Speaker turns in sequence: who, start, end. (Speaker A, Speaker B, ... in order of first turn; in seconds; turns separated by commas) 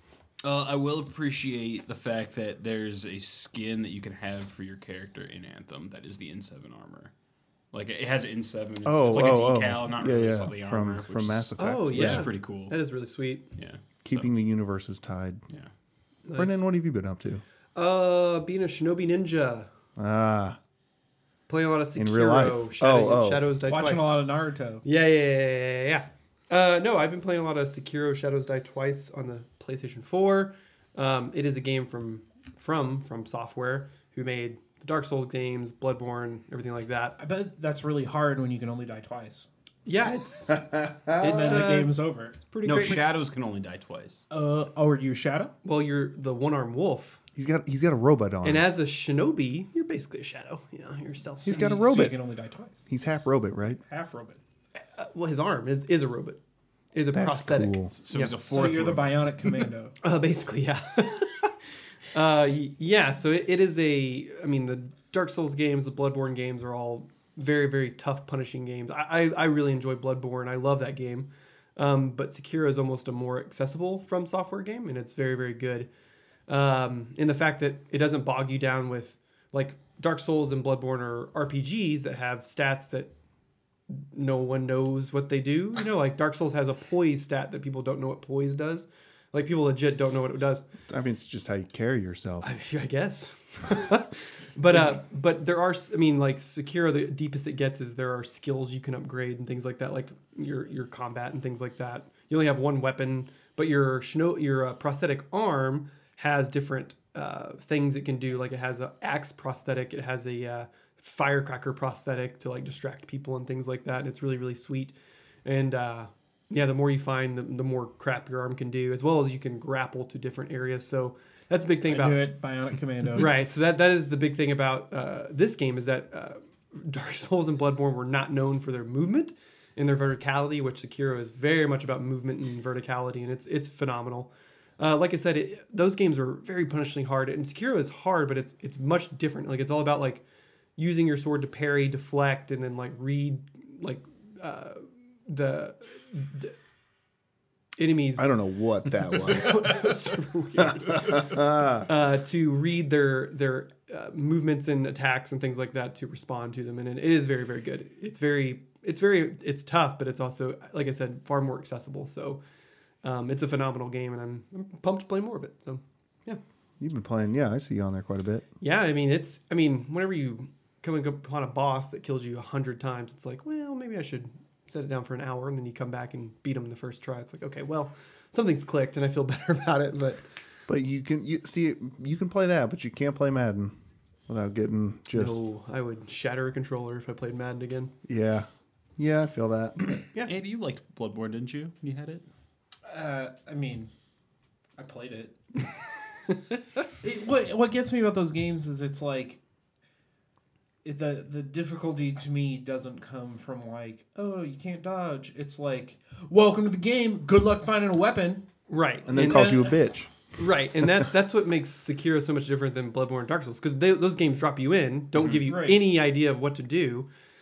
Speaker A: 0.4-7.1, Speaker A: 7.7-12.8, Speaker B: 8.8-12.3, Speaker C: 11.6-13.4, Speaker A: 13.6-14.3, Speaker B: 14.0-15.4, Speaker C: 16.2-16.6, Speaker B: 16.3-17.4, Speaker C: 17.7-19.7, Speaker B: 20.0-20.6, Speaker C: 21.5-24.3, Speaker B: 21.9-23.4, Speaker D: 23.7-24.8, Speaker C: 24.8-37.1, Speaker D: 37.2-39.5, Speaker C: 39.8-42.0, Speaker B: 40.5-41.2, Speaker D: 41.2-42.5, Speaker C: 42.5-43.0, Speaker A: 42.6-44.3, Speaker D: 44.3-45.5, Speaker C: 45.6-47.2, Speaker B: 47.3-48.7, Speaker C: 48.4-51.9, Speaker B: 51.4-52.2, Speaker D: 51.5-52.9, Speaker B: 52.9-53.8, Speaker D: 53.8-54.4, Speaker C: 55.0-56.4, Speaker C: 56.9-58.4, Speaker B: 57.1-57.9, Speaker A: 57.9-59.2, Speaker D: 58.5-60.0, Speaker C: 60.0-61.5, Speaker C: 62.1-75.9, Speaker C: 76.5-83.1, Speaker C: 83.9-90.6, Speaker B: 90.9-92.5, Speaker C: 92.4-122.2, Speaker D: 121.8-123.4, Speaker C: 123.2-140.2, Speaker C: 140.8-146.5, Speaker C: 147.8-162.4, Speaker B: 148.2-149.8, Speaker B: 150.6-151.9, Speaker C: 163.0-166.4, Speaker B: 166.8-168.4, Speaker C: 168.6-180.2, Speaker B: 180.7-183.7, Speaker B: 184.3-185.5, Speaker C: 185.1-187.9, Speaker B: 188.1-190.0, Speaker A: 190.1-192.2, Speaker D: 192.8-193.9, Speaker D: 194.8-195.4, Speaker D: 197.0-199.4, Speaker D: 200.8-208.4, Speaker C: 208.7-209.7, Speaker B: 209.1-210.1, Speaker D: 209.2-209.7, Speaker C: 210.4-217.1, Speaker D: 215.4-215.9